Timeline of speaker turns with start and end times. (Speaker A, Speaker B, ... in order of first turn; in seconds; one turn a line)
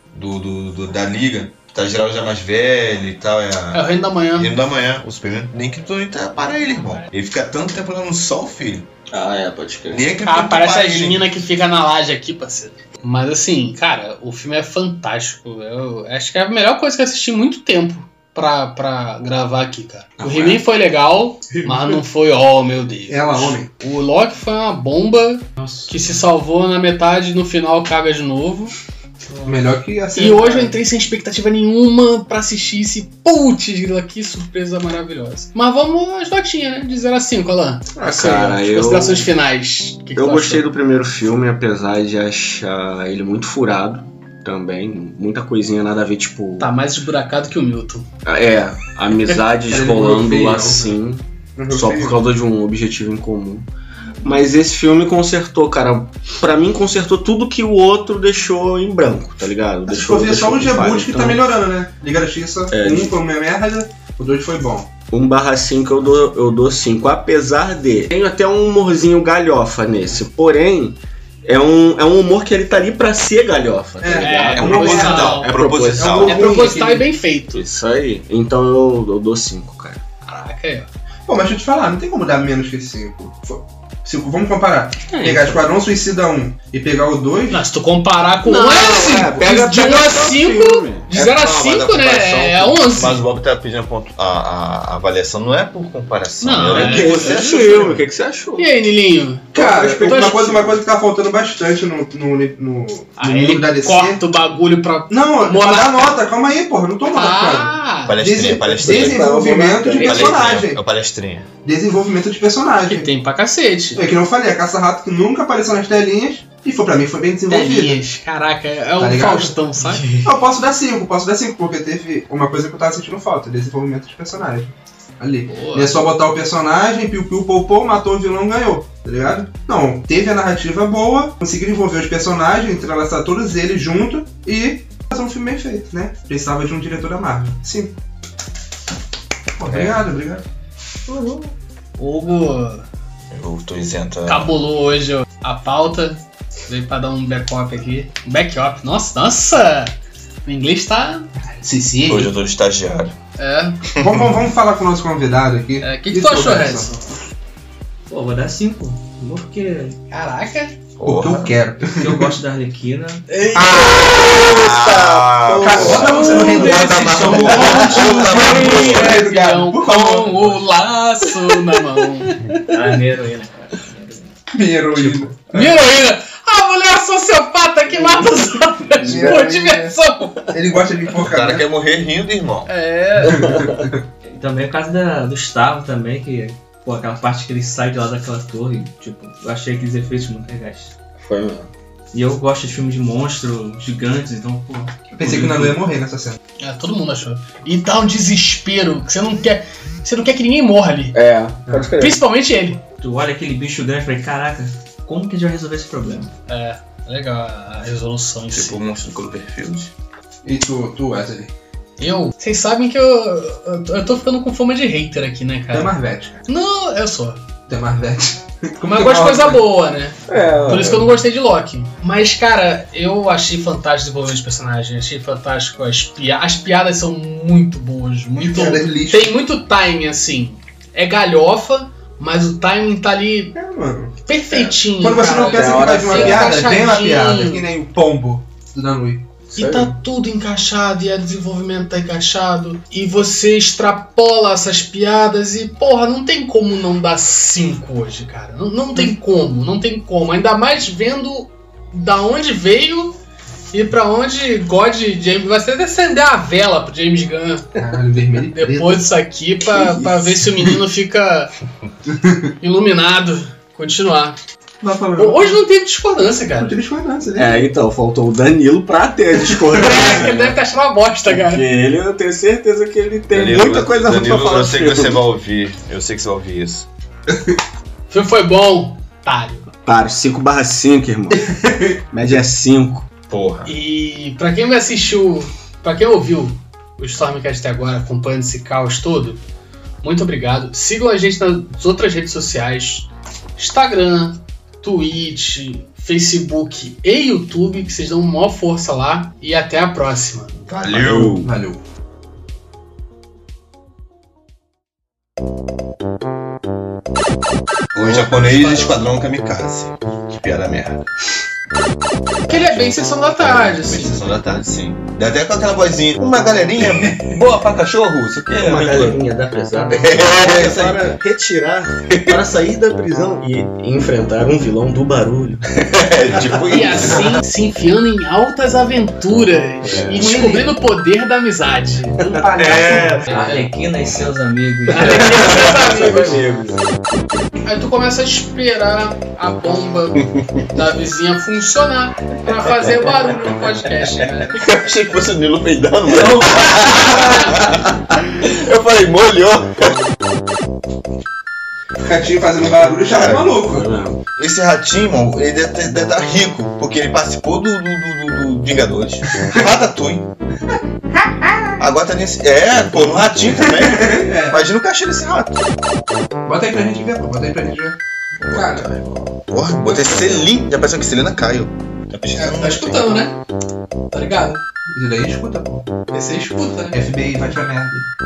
Speaker A: 0.1-8.9
Speaker B: 3.7-4.5
Speaker C: 9.1-10.1
Speaker A: 9.9-11.3
Speaker B: 10.2-28.7
Speaker C: 20.2-20.6
Speaker D: 23.1-23.7
Speaker E: 25.6-26.0
Speaker E: 29.3-29.7
Speaker D: 29.4-30.8
Speaker B: 30.1-40.6
Speaker C: 38.0-39.3
Speaker D: 38.0-38.4
Speaker C: 40.1-46.7
Speaker B: 46.6-48.1
Speaker C: 48.2-53.7
Speaker D: 49.7-50.9
Speaker D: 51.5-52.2
Speaker C: 54.2-61.5
Speaker D: 59.9-64.9
Speaker C: 62.7-63.1
Speaker C: 65.1-76.8
Speaker D: 74.0-77.0
Speaker B: 74.1-75.5
Speaker A: 74.5-76.4
Speaker B: 76.2-77.6
Speaker C: 77.5-80.0
Speaker B: 80.2-80.9
Speaker D: 81.2-87.6
Speaker B: 85.1-85.5
Speaker B: 87.5-93.2
Speaker D: 88.5-90.1
Speaker C: 88.6-91.1
Speaker A: 91.1-98.0
Speaker B: 96.4-97.3
Speaker C: 96.6-98.7
Speaker D: 96.9-97.9
Speaker B: 98.6-100.7
Speaker D: 99.5-104.2
Speaker C: 99.5-100.5
Speaker B: 103.2-106.2
Speaker D: 105.1-110.8
Speaker B: 107.0-108.2
Speaker A: 108.1-109.2
Speaker C: 108.8-110.5
Speaker A: 110.0-111.5
Speaker D: 111.6-113.1
Speaker B: 112.8-114.1
Speaker D: 113.9-118.0
Speaker B: 117.5-120.0
Speaker D: 119.0-137.9
Speaker B: 125.5-126.0
Speaker D: 139.6-140.4
Speaker A: 139.6-140.0
Speaker B: 142.0-142.8
Speaker A: 143.3-144.5
Speaker B: 144.2-149.9
Speaker B: 150.4-151.3
Speaker D: 151.6-152.3
Speaker A: 152.1-153.1
Speaker B: 153.4-153.8
Speaker A: 153.8-154.3
Speaker D: 154.0-156.9
Speaker B: 155.8-157.1
Speaker E: 158.1-160.0
Speaker B: 160.1-160.8
Speaker A: 161.0-161.6
Speaker D: 161.0-162.3
Speaker E: 161.9-163.2
Speaker B: 163.3-164.4
Speaker D: 163.5-164.0
Speaker A: 163.8-169.2
Speaker C: 163.9-166.2
Speaker D: 165.5-170.6
Speaker B: 165.9-172.6
Speaker E: 172.6-174.3
Speaker D: 174.5-175.8
Speaker B: 175.0-180.5
Speaker D: 179.0-179.9
Speaker C: 179.0-179.4
Speaker D: 180.5-181.6
Speaker A: 181.2-182.7
Speaker B: 182.7-183.6
Speaker D: 183.2-184.0
Speaker C: 183.3-183.9
Speaker E: 184.2-190.9
Speaker C: 191.2-191.7
Speaker E: 192.1-195.8
Speaker D: 195.2-196.4
Speaker B: 196.6-201.2
Speaker C: 201.1-202.2
Speaker D: 201.7-201.9
Speaker B: 202.0-202.8
Speaker E: 203.0-206.3
Speaker B: 206.5-208.8
Speaker A: 208.5-209.9
Speaker D: 210.4-211.5
Speaker B: 212.0-215.9
Speaker D: 215.7-216.4
Speaker B: 216.4-217.4
Speaker D: 217.7-219.6
Speaker B: 218.8-233.6
Speaker C: 220.3-221.1
Speaker D: 228.4-229.3
Speaker D: 233.5-239.9
Speaker B: 234.2-237.6
Speaker C: 235.3-236.6
Speaker C: 239.5-239.9
Speaker B: 239.5-253.2
Speaker B: 253.7-257.8
Speaker D: 257.8-259.1
Speaker B: 258.4-261.5
Speaker D: 262.1-262.5
Speaker B: 262.6-264.4
Speaker D: 264.8-265.6
Speaker B: 265.1-266.8
Speaker D: 266.6-267.7
Speaker C: 267.3-270.5
Speaker D: 269.6-270.3
Speaker B: 269.7-271.6
Speaker C: 271.3-275.2
Speaker A: 273.3-276.9
Speaker B: 278.1-279.7
Speaker C: 279.8-281.5
Speaker D: 281.3-282.0
Speaker C: 282.1-283.1
Speaker A: 283.3-283.7
Speaker B: 283.6-289.4
Speaker B: 290.0-300.5
Speaker A: 300.7-301.5
Speaker C: 301.0-301.4
Speaker D: 301.4-301.8
Speaker A: 307.9-311.0
Speaker B: 308.6-308.8
Speaker A: 312.4-319.2
Speaker B: 312.5-314.2
Speaker C: 318.6-325.6
Speaker A: 319.9-321.2
Speaker A: 325.9-327.4
Speaker B: 326.7-332.5
Speaker C: 329.8-330.2
Speaker D: 330.1-330.8
Speaker C: 332.3-333.6
Speaker D: 332.4-333.4
Speaker B: 333.2-333.6
Speaker E: 333.3-335.9
Speaker B: 334.9-336.4
Speaker C: 334.9-336.9
Speaker B: 337.6-344.7
Speaker A: 344.4-350.1
Speaker D: 346.8-347.4
Speaker B: 347.0-347.6
Speaker D: 352.0-353.9
Speaker A: 352.6-353.5
Speaker C: 353.5-354.2
Speaker A: 354.4-360.3
Speaker D: 361.2-361.7
Speaker A: 361.8-365.7
Speaker D: 363.1-364.6
Speaker D: 366.4-368.0
Speaker A: 368.4-373.2
Speaker B: 368.6-368.8
Speaker B: 372.3-373.4
Speaker B: 374.1-374.6
Speaker D: 374.9-375.8
Speaker B: 376.1-377.0
Speaker D: 376.9-378.1